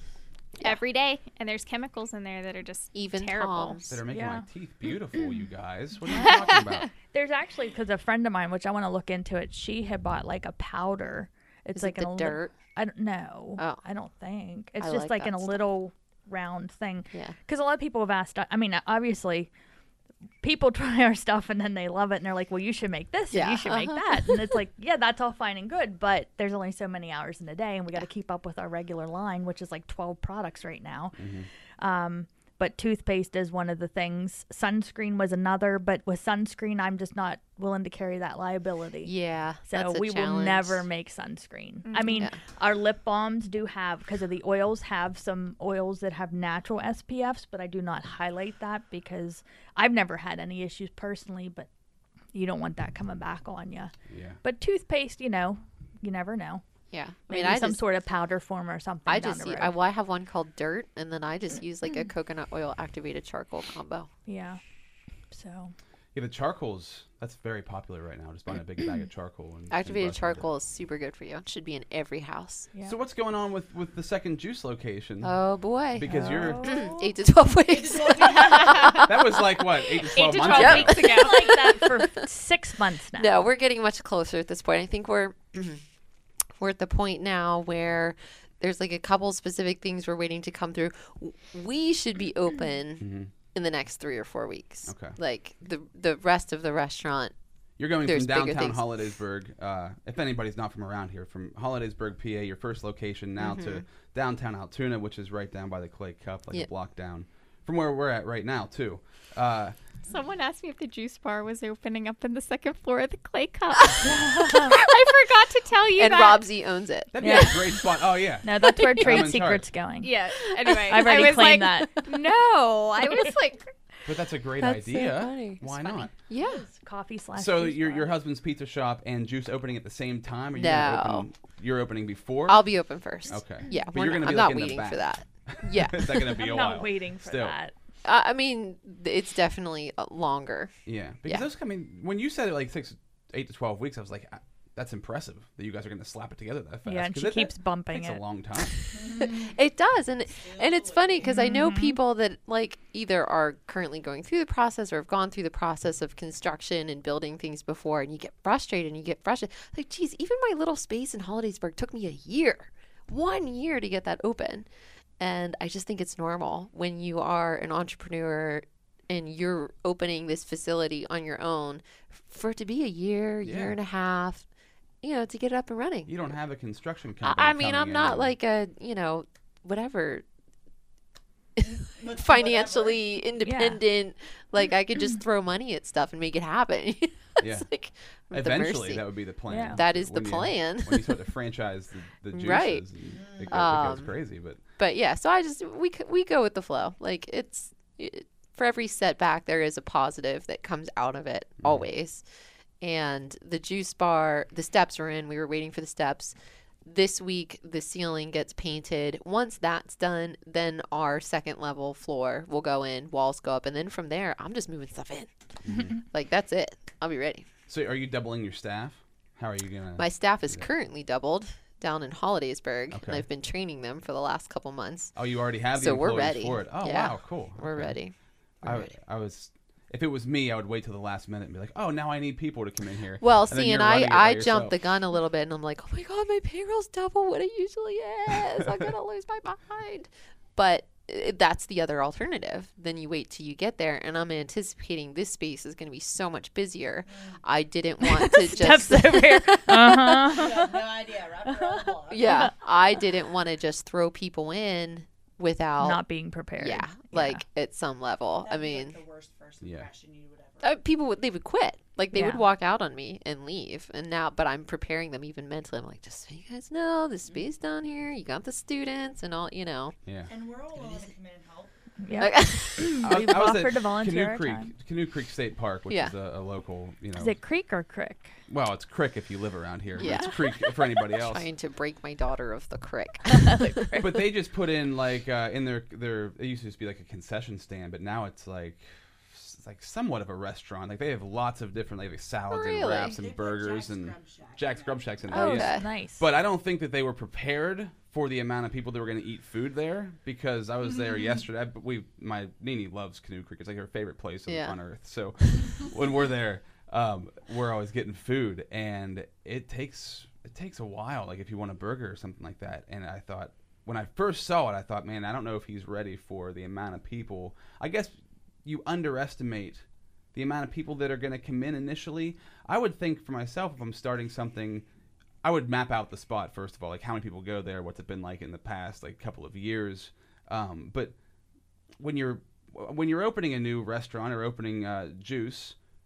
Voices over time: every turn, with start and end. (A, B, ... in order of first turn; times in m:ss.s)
0:00.6-0:03.8 A
0:03.0-0:04.0 B
0:03.9-0:06.9 C
0:04.1-0:04.5 D
0:06.2-0:06.6 D
0:07.1-0:19.5 D
0:11.8-0:12.5 B
0:13.6-0:13.8 B
0:14.8-0:15.6 B
0:20.4-0:31.2 D
0:23.3-0:24.6 B
0:31.2-0:31.5 C
0:31.8-0:39.1 D
0:39.0-0:40.9 B
0:39.7-0:51.7 D
0:41.9-0:42.3 A
0:42.1-0:42.4 B
0:52.3-0:56.6 D
0:54.1-0:54.4 C
0:56.9-0:57.8 B
0:57.3-0:59.8 D
0:59.1-1:04.1 B
1:04.3-1:04.6 D
1:05.3-1:05.7 D
1:06.1-1:10.5 C
1:09.7-1:12.7 B
1:12.8-1:15.4 C
1:15.2-1:19.4 B
1:15.9-1:16.7 C
1:16.1-1:17.1 D
1:17.7-1:19.0 E
1:18.1-1:19.2 A
1:19.0-1:21.1 C
1:20.1-1:21.6 A
1:20.4-1:22.3 B
1:20.7-1:23.4 D
1:23.1-1:25.8 B
1:26.6-1:37.3 B
1:33.0-1:33.3 C
1:34.9-1:35.2 C
1:37.8-1:49.8 C
1:38.0-1:38.9 B
1:43.4-1:43.8 B
1:50.1-1:56.5 A
1:54.1-1:54.7 D
1:54.1-1:54.8 B
1:56.0-1:57.5 B
1:57.1-1:59.7 C
1:57.2-1:57.8 D
1:58.4-2:00.1 D
1:58.8-1:59.3 B
2:00.0-2:03.7 A
2:00.6-2:02.1 B
2:00.9-2:02.0 D
2:04.0-2:06.1 C
2:04.6-2:06.6 B
2:06.6-2:08.1 D
2:07.4-2:12.6 C
2:10.6-2:11.3 B
2:12.5-2:16.4 B
2:13.3-2:17.6 C
2:16.3-2:17.7 D
2:18.0-2:20.7 B
2:20.9-2:28.8 C
2:26.9-2:28.2 D
2:28.8-2:44.7 B
2:28.9-2:29.5 E
2:30.3-2:31.5 E
2:31.2-2:32.0 D
2:45.2-2:54.4 B
2:53.4-2:53.8 C
2:55.0-2:56.2 B
2:56.1-2:58.3 C
2:57.2-3:00.2 B
3:01.6-3:09.1 B
3:01.6-3:03.0 E
3:03.4-3:03.8 D
3:07.4-3:07.7 C
3:08.3-3:14.6 C
3:09.5-3:09.8 D
3:09.7-3:11.2 B
3:12.3-3:12.9 B
3:13.1-3:13.8 E
3:13.5-3:14.1 B
3:14.8-3:22.2 B
3:21.6-3:21.9 C
3:22.8-3:35.3 B
3:35.6-3:36.0 C
3:36.0-3:37.5 B
3:37.7-3:40.7 C
3:40.0-3:45.2 B
3:42.9-3:43.3 C
3:45.2-3:48.0 C
3:45.7-3:48.9 B
3:48.6-3:54.8 C
3:53.2-4:10.5 B
4:07.1-4:07.4 E
4:08.1-4:10.9 D
4:10.3-4:12.6 E
4:11.6-4:12.5 D
4:12.1-4:16.0 B
4:15.8-4:17.4 D
4:16.6-4:19.0 B
4:18.4-4:20.8 E
4:19.6-4:19.9 C
4:20.6-4:30.0 B
4:22.1-4:22.4 D
4:30.1-4:30.3 C
4:30.3-4:31.7 E
4:32.0-4:34.7 D
4:32.2-4:33.1 B
4:33.0-4:37.4 C
4:35.9-4:36.1 B
4:37.2-4:38.3 D
4:38.5-4:41.5 C
4:40.0-4:44.0 B
4:43.5-4:44.2 D
4:44.0-5:24.8 C
4:52.5-4:53.2 B
4:53.0-4:55.3 E
4:55.3-4:56.2 D
4:55.3-4:55.9 B
5:04.5-5:04.8 B
5:25.4-5:31.2 C
5:32.0-5:35.8 C